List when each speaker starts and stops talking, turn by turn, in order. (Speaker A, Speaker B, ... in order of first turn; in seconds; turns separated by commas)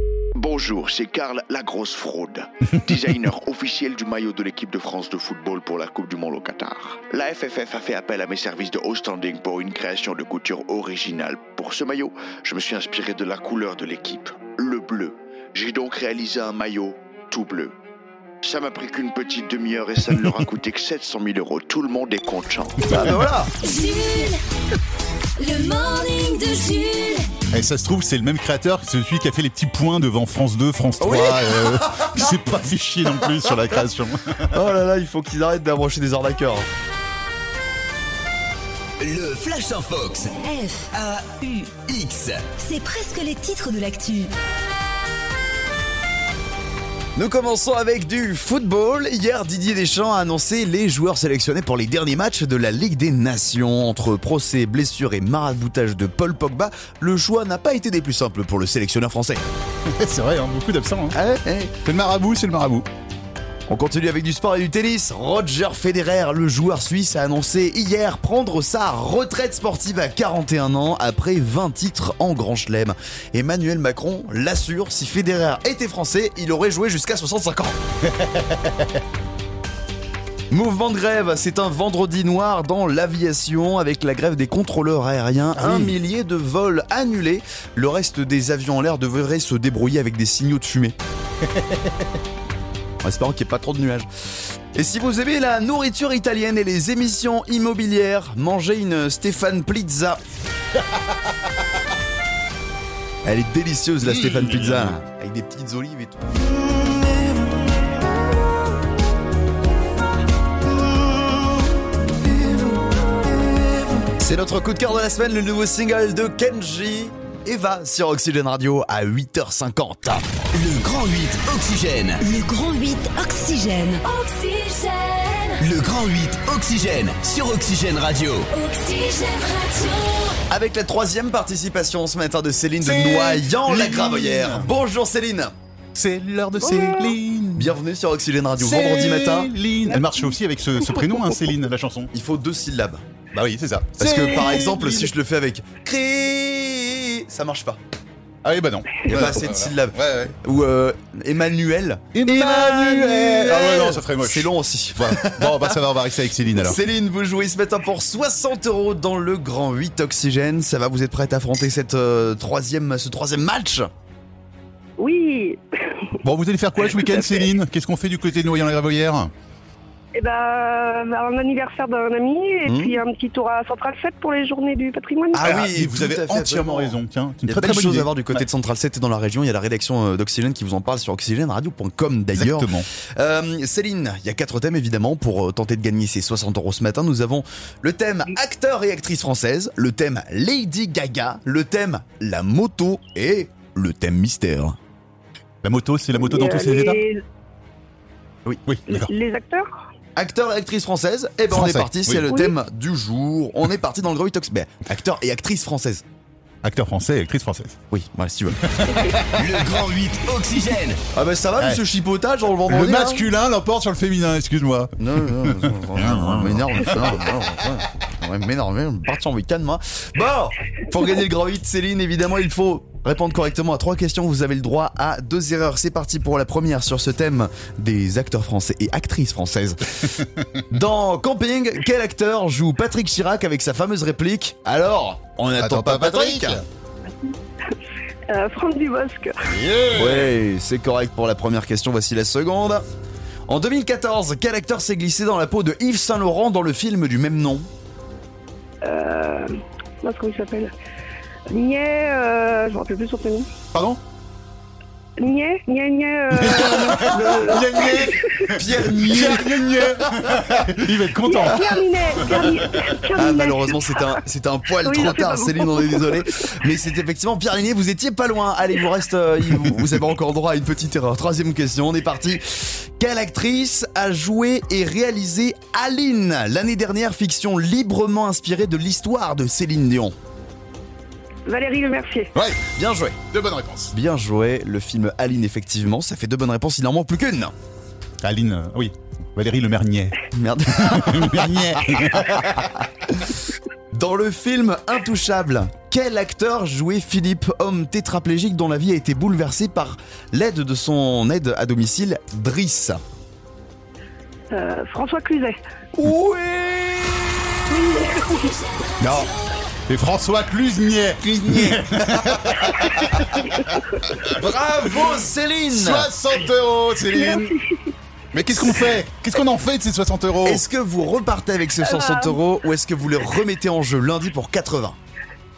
Speaker A: 0.3-17.7, Speaker A: 18.4-22.8, Speaker B: 22.9-23.5, Speaker C: 23.6-24.4, Speaker C: 25.4-27.3, Speaker D: 27.5-34.6, Speaker B: 31.0-32.4, Speaker B: 34.5-36.7, Speaker E: 39.0-40.4, Speaker C: 40.4-40.9, Speaker E: 40.9-42.5, Speaker C: 42.6-44.3, Speaker B: 47.1-59.4, Speaker D: 59.9-61.1, Speaker B: 61.1-61.7, Speaker D: 61.8-62.9, Speaker B: 63.7-77.8, Speaker D: 78.1-79.0, Speaker B: 80.5-90.9, Speaker D: 85.5-86.0, Speaker D: 91.5-92.1, Speaker B: 93.0-94.1, Speaker B: 94.7-100.2, Speaker B: 103.2-106.4, Speaker D: 104.0-105.0, Speaker B: 114.2-120.3, Speaker E: 120.5-122.2, Speaker C: 122.2-125.6, Speaker E: 125.6-128.5, Speaker C: 128.5-130.4, Speaker B: 130.5-135.5, Speaker D: 132.8-134.7, Speaker D: 135.9-137.8, Speaker B: 137.6-139.5, Speaker D: 138.6-142.1, Speaker B: 142.1-143.0, Speaker D: 143.3-145.1, Speaker B: 144.0-147.8, Speaker D: 148.4-150.3, Speaker B: 149.1-155.8, Speaker D: 152.1-156.8, Speaker B: 156.6-163.9, Speaker F: 165.0-166.1, Speaker D: 166.2-169.3, Speaker F: 166.9-167.4, Speaker F: 170.1-175.5, Speaker B: 172.7-173.0, Speaker B: 175.3-194.8, Speaker D: 175.3-178.4, Speaker D: 182.3-182.9, Speaker D: 195.6-197.0, Speaker F: 196.2-197.2, Speaker D: 198.7-199.1, Speaker F: 198.9-199.7, Speaker B: 200.2-206.0, Speaker D: 201.5-202.3, Speaker D: 206.6-207.8, Speaker B: 207.9-208.6, Speaker D: 208.6-209.3, Speaker E: 209.3-211.0, Speaker B: 211.1-213.2, Speaker D: 212.7-217.3, Speaker B: 215.0-230.1, Speaker D: 230.2-230.6, Speaker B: 230.7-236.6, Speaker D: 235.6-236.6, Speaker F: 238.3-239.4, Speaker D: 239.5-240.3, Speaker B: 239.9-242.8, Speaker B: 243.5-247.7, Speaker F: 248.8-249.5, Speaker F: 250.0-250.7, Speaker F: 251.5-253.5, Speaker D: 253.7-254.0, Speaker F: 255.2-258.5, Speaker D: 256.3-262.9, Speaker B: 258.5-260.4, Speaker F: 261.2-264.1, Speaker B: 263.1-280.1, Speaker F: 264.8-266.2, Speaker F: 281.4-282.3, Speaker D: 282.3-282.6, Speaker B: 282.6-283.2, Speaker D: 283.3-283.9, Speaker B: 283.9-287.5, Speaker D: 288.2-292.7, Speaker B: 290.3-293.4, Speaker B: 293.9-303.0, Speaker F: 304.5-305.6, Speaker B: 305.9-307.4, Speaker F: 307.7-308.5, Speaker C: 308.1-309.6, Speaker B: 309.0-309.3, Speaker D: 309.9-313.4, Speaker B: 311.2-313.1, Speaker B: 314.3-316.1, Speaker D: 315.7-317.5, Speaker F: 317.1-317.9, Speaker D: 318.3-320.6, Speaker B: 320.4-324.9, Speaker F: 321.9-322.4